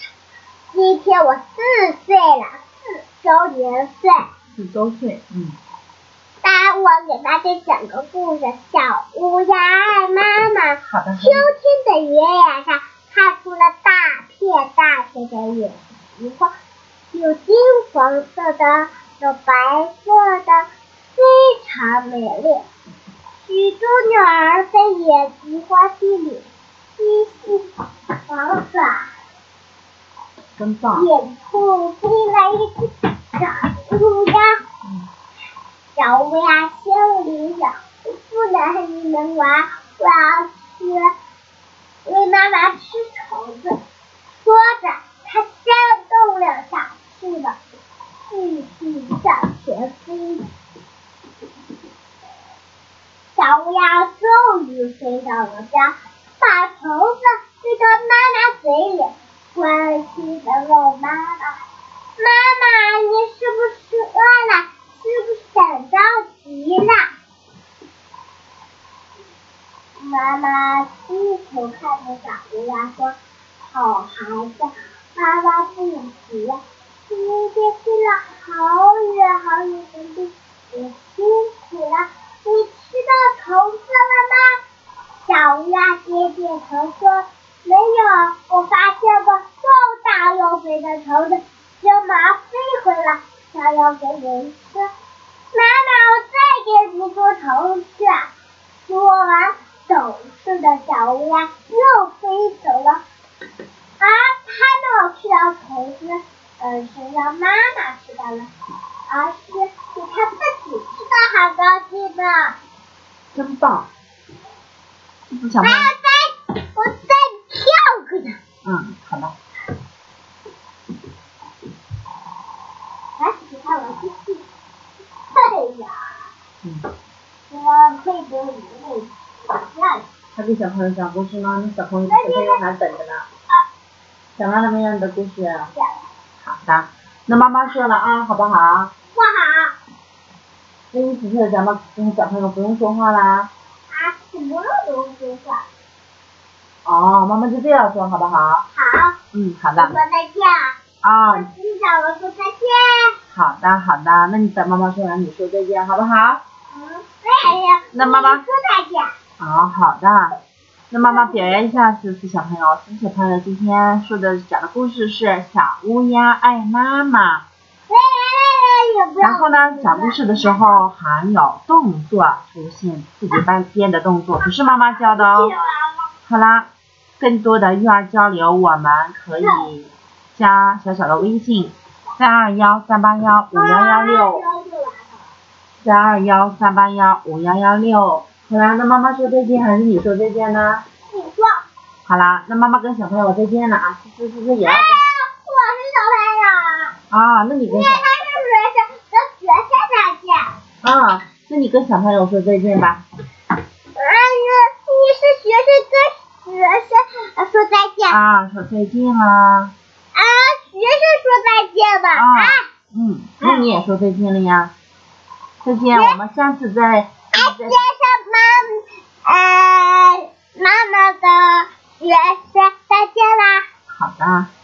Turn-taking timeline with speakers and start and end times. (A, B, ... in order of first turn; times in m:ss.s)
0:00.7-0:02.6 A
0:03.2-0:04.2 A
0:04.6-0:05.6 B
0:06.4-0:16.5 A
0:10.8-0:11.5 B
0:17.1-0:22.6 A
0:23.4-0:27.7 A
0:28.3-0:29.1 A
0:30.6-0:31.1 B
0:30.9-0:34.6 A
0:36.0-0:41.1 A
0:42.0-0:43.8 A
0:44.4-0:47.6 A
0:48.3-0:50.4 A
0:53.4-1:01.6 A
1:02.2-1:07.1 A
1:10.0-1:24.6 A
1:25.3-1:34.9 A
1:35.5-1:38.3 A
1:38.9-1:43.0 A
1:44.0-1:48.5 A
1:49.1-1:52.6 A
1:53.3-1:53.9 B
1:55.3-1:55.9 B
1:55.6-1:58.4 A
1:58.6-1:59.4 B
2:03.2-2:04.4 A
2:05.3-2:06.0 A
2:07.5-2:10.1 A
2:10.4-2:13.3 B
2:12.1-2:12.6 A
2:14.4-2:15.7 B
2:16.4-2:18.9 B
2:19.1-2:19.7 A
2:20.9-2:23.5 B
2:23.9-2:25.7 A
2:26.8-2:28.7 B
2:28.7-2:29.2 A
2:29.3-2:30.0 B
2:29.8-2:30.8 A
2:31.0-2:31.5 B
2:31.3-2:33.2 A
2:33.3-2:36.4 B
2:36.7-2:39.1 A
2:37.9-2:38.4 B
2:39.4-2:40.4 B
2:40.9-2:47.4 B
2:41.0-2:41.8 A
2:47.9-2:50.9 A
2:49.2-2:55.5 B
2:54.6-2:56.1 A
2:56.3-3:04.4 B
2:59.4-2:59.7 A
3:03.5-3:05.2 A
3:05.8-3:10.8 B
3:11.1-3:11.6 A
3:12.1-3:15.0 B
3:14.6-3:17.0 A
3:17.1-3:18.1 B
3:17.7-3:20.5 A
3:20.8-3:23.0 B
3:24.0-3:28.2 A
3:28.1-3:29.7 B
3:30.1-3:32.7 A
3:32.1-3:34.7 B
3:33.4-3:33.7 A
3:35.6-3:37.8 B
3:35.9-3:36.2 A
3:37.3-3:43.6 A
3:43.9-3:44.5 B